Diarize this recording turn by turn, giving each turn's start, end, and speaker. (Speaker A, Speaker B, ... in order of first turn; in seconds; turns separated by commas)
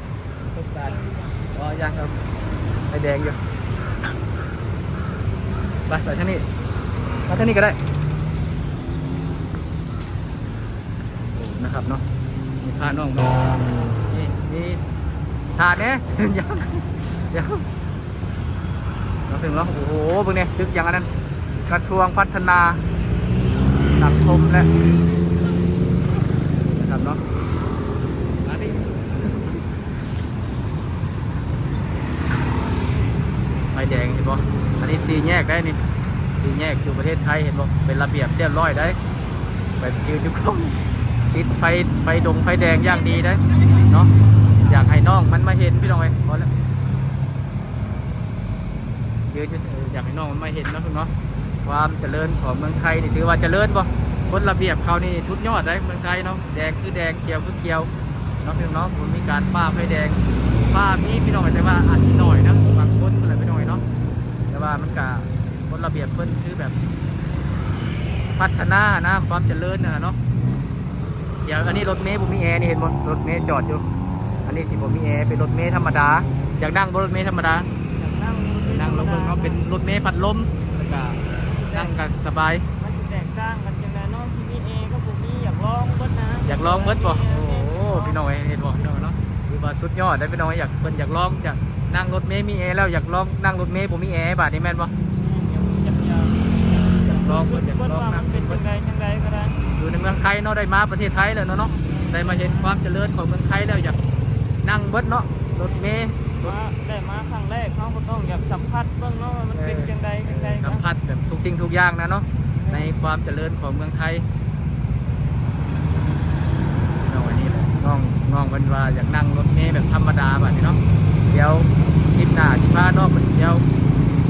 Speaker A: 0.5-2.2, Speaker A: 2.9-3.4, Speaker A: 5.9-6.5, Speaker A: 7.3-7.8, Speaker A: 11.3-12.0, Speaker A: 12.6-14.8, Speaker A: 15.5-17.6, Speaker A: 19.3-21.1, Speaker A: 21.7-22.8, Speaker A: 24.0-24.7, Speaker A: 26.6-27.2, Speaker A: 28.4-29.3, Speaker A: 33.7-35.8, Speaker A: 36.4-39.0, Speaker A: 39.8-40.8, Speaker A: 41.3-44.1, Speaker A: 44.7-46.5, Speaker A: 49.3-51.1, Speaker A: 51.6-57.9, Speaker A: 58.4-60.2, Speaker A: 60.7-63.8, Speaker A: 64.5-66.8, Speaker A: 68.4-70.2, Speaker A: 71.5-73.8, Speaker A: 74.5-77.7, Speaker B: 78.0-79.6, Speaker A: 78.7-81.2, Speaker B: 81.6-82.0, Speaker A: 81.7-82.7, Speaker B: 82.8-88.2, Speaker A: 86.5-94.9, Speaker B: 95.1-99.6, Speaker A: 97.0-98.6, Speaker A: 99.8-104.0, Speaker B: 101.8-102.8, Speaker A: 104.6-106.5, Speaker B: 106.4-110.9, Speaker A: 109.5-114.3, Speaker B: 112.6-112.9, Speaker A: 117.0-123.7